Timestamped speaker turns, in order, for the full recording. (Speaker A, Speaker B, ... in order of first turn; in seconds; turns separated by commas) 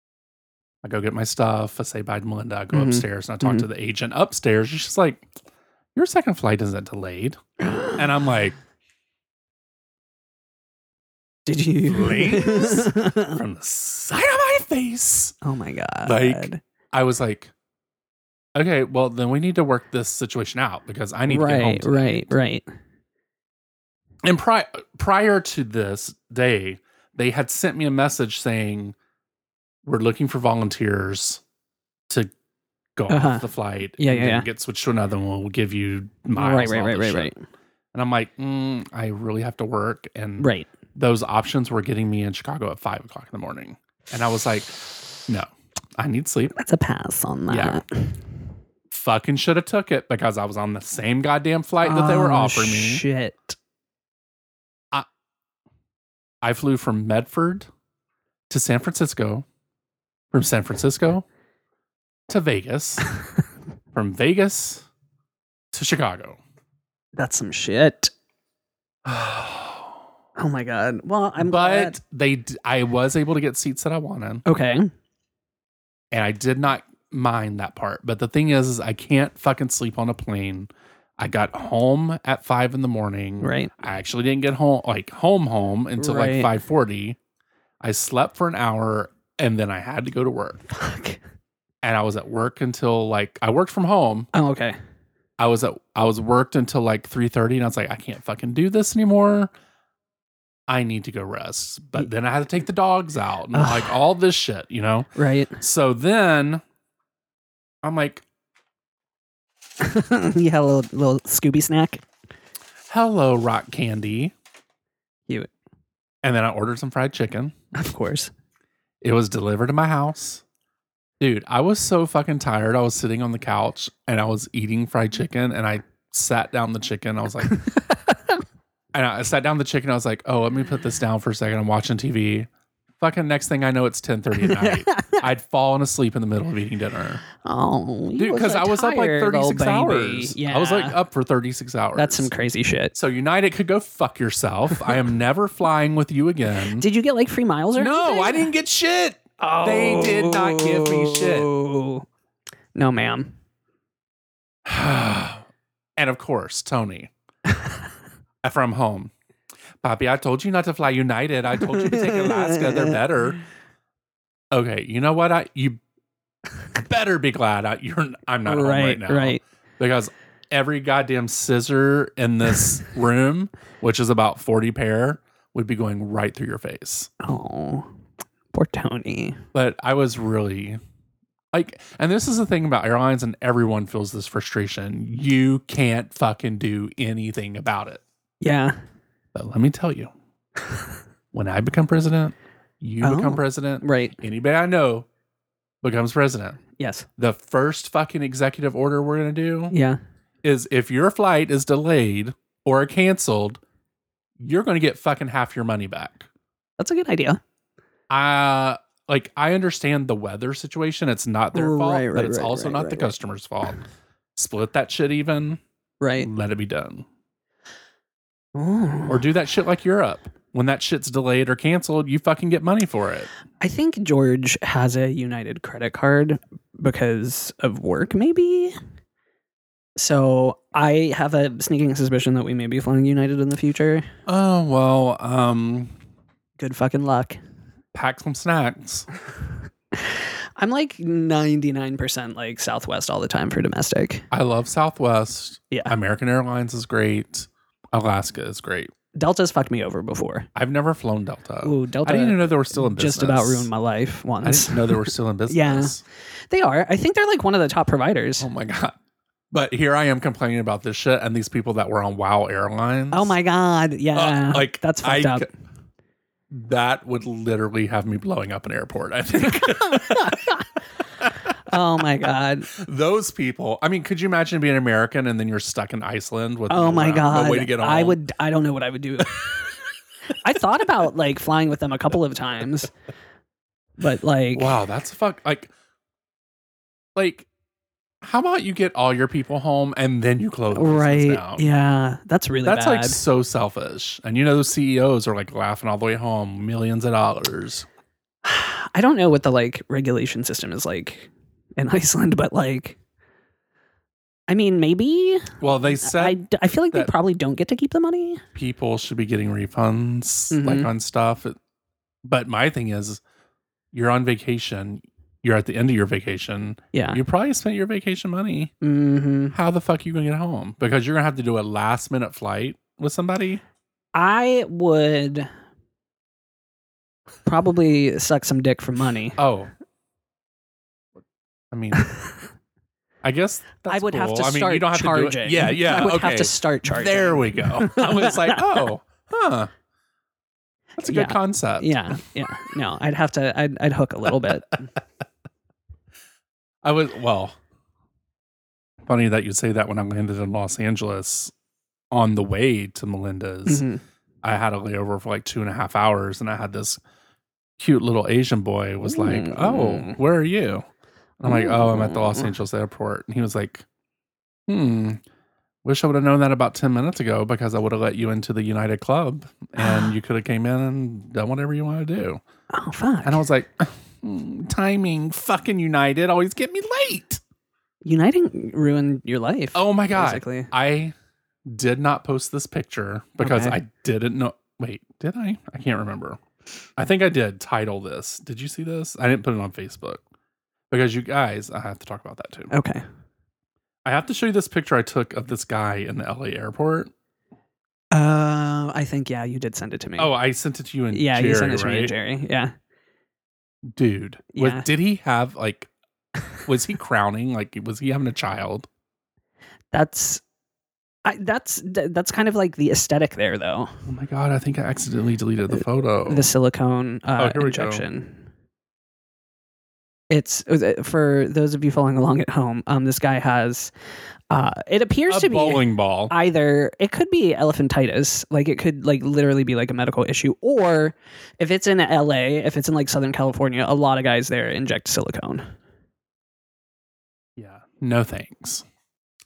Speaker A: 0.8-5.3, Speaker B: 2.7-3.7, Speaker A: 6.0-7.4, Speaker B: 7.6-8.0, Speaker A: 7.9-8.6, Speaker B: 11.5-13.4, Speaker A: 11.8-15.3, Speaker B: 15.4-16.6, Speaker A: 16.1-17.5, Speaker A: 18.6-22.3, Speaker B: 21.3-22.6, Speaker A: 24.2-28.9, Speaker A: 29.9-31.4, Speaker A: 33.0-37.3, Speaker B: 33.1-33.5, Speaker B: 34.0-34.5, Speaker B: 36.4-37.4, Speaker A: 37.9-46.5, Speaker B: 40.4-40.7, Speaker B: 46.6-48.1, Speaker A: 47.5-47.8, Speaker A: 48.9-53.0, Speaker B: 51.8-53.6, Speaker A: 56.4-57.7, Speaker A: 58.5-59.5, Speaker A: 60.3-61.2, Speaker A: 62.3-63.1, Speaker A: 63.9-64.9, Speaker A: 65.7-66.4, Speaker B: 67.2-68.1, Speaker A: 69.0-69.9, Speaker B: 70.4-72.0, Speaker A: 71.4-74.4, Speaker B: 74.5-74.9, Speaker A: 76.1-87.2, Speaker B: 83.4-83.7, Speaker B: 86.0-86.5, Speaker A: 87.8-90.6, Speaker B: 90.7-91.2, Speaker A: 91.8-94.3, Speaker B: 94.3-94.8, Speaker A: 95.4-99.5, Speaker A: 100.7-106.6, Speaker B: 103.5-103.9, Speaker B: 105.2-105.6, Speaker A: 107.8-108.2, Speaker B: 109.8-112.0, Speaker A: 112.9-114.3, Speaker A: 116.2-117.5, Speaker B: 117.7-118.3, Speaker A: 119.0-120.4, Speaker A: 121.2-127.6, Speaker B: 127.5-128.1, Speaker A: 128.9-137.2, Speaker B: 134.4-135.2, Speaker B: 137.4-141.0, Speaker A: 138.2-142.3, Speaker B: 141.9-142.9, Speaker A: 142.9-146.9, Speaker B: 146.8-148.5, Speaker A: 147.8-151.5, Speaker B: 149.4-152.1, Speaker B: 152.8-153.3, Speaker A: 154.7-155.4, Speaker A: 156.0-157.1, Speaker A: 158.4-159.1, Speaker A: 159.8-163.4, Speaker B: 161.6-163.0, Speaker A: 164.5-165.8, Speaker A: 166.7-177.1, Speaker B: 168.5-169.4, Speaker B: 177.2-177.9, Speaker B: 178.5-179.4, Speaker A: 179.5-180.8, Speaker A: 181.5-188.0, Speaker B: 188.4-188.8, Speaker A: 189.3-190.1, Speaker A: 191.3-195.1, Speaker B: 193.0-194.2, Speaker A: 195.8-196.6, Speaker B: 196.8-197.1, Speaker A: 197.2-199.7, Speaker B: 199.7-200.0, Speaker A: 200.4-203.6, Speaker A: 204.4-206.3, Speaker B: 206.8-207.4, Speaker A: 208.1-213.8, Speaker B: 211.5-213.1, Speaker A: 214.4-215.6, Speaker B: 216.0-216.3, Speaker A: 216.2-217.1, Speaker B: 218.6-219.2, Speaker A: 219.1-223.3, Speaker B: 223.6-228.8, Speaker B: 230.0-234.1, Speaker A: 234.3-235.9, Speaker B: 236.6-237.4, Speaker A: 237.9-239.1, Speaker B: 240.0-244.2, Speaker A: 244.3-248.9, Speaker B: 249.2-250.5, Speaker A: 250.6-253.7, Speaker B: 251.6-255.9, Speaker A: 254.4-256.0, Speaker B: 256.5-258.5, Speaker A: 258.4-259.0, Speaker A: 259.5-263.4, Speaker B: 263.1-265.5, Speaker A: 264.1-265.5, Speaker A: 266.5-270.6, Speaker B: 269.4-270.7, Speaker A: 271.2-271.5, Speaker B: 271.7-272.7, Speaker A: 272.7-278.2, Speaker B: 276.7-279.6, Speaker B: 280.3-282.9, Speaker B: 284.0-284.7, Speaker A: 284.5-285.7, Speaker A: 287.1-287.5, Speaker A: 288.2-291.7, Speaker B: 290.7-293.2, Speaker A: 292.6-297.9, Speaker B: 298.4-303.0, Speaker B: 304.5-308.4, Speaker A: 305.6-306.4, Speaker A: 308.6-311.6, Speaker B: 310.5-310.9, Speaker A: 312.2-313.2, Speaker A: 313.9-318.7, Speaker B: 316.9-317.2, Speaker B: 318.8-319.6, Speaker A: 319.5-323.6, Speaker B: 324.1-325.5, Speaker B: 327.5-329.4, Speaker A: 329.4-329.7, Speaker A: 331.7-332.1, Speaker A: 333.2-339.7, Speaker B: 333.9-338.8, Speaker A: 341.0-342.0, Speaker B: 341.1-344.9, Speaker A: 346.8-347.6, Speaker A: 349.1-351.5, Speaker A: 352.1-353.9, Speaker B: 353.7-354.0, Speaker A: 354.4-357.0, Speaker A: 357.8-360.9, Speaker B: 359.1-360.2, Speaker A: 361.4-363.9, Speaker B: 361.5-362.5, Speaker A: 364.7-365.2, Speaker A: 365.8-372.4, Speaker B: 369.8-370.1, Speaker B: 372.7-373.4, Speaker A: 373.2-377.4, Speaker B: 378.0-380.7, Speaker A: 379.8-381.1, Speaker A: 381.7-386.4, Speaker B: 383.4-383.8, Speaker A: 387.0-390.2, Speaker A: 390.9-392.7, Speaker B: 392.7-393.0, Speaker A: 394.1-397.1, Speaker B: 398.1-400.3, Speaker A: 400.2-402.1, Speaker B: 401.1-402.7, Speaker A: 403.9-405.9, Speaker B: 404.5-404.9, Speaker A: 406.6-408.9, Speaker B: 409.9-410.4, Speaker B: 411.2-413.9, Speaker A: 414.1-416.4, Speaker B: 416.3-418.4, Speaker A: 417.4-418.1, Speaker B: 420.3-423.9, Speaker B: 424.5-435.7, Speaker A: 425.3-426.3, Speaker A: 437.6-438.8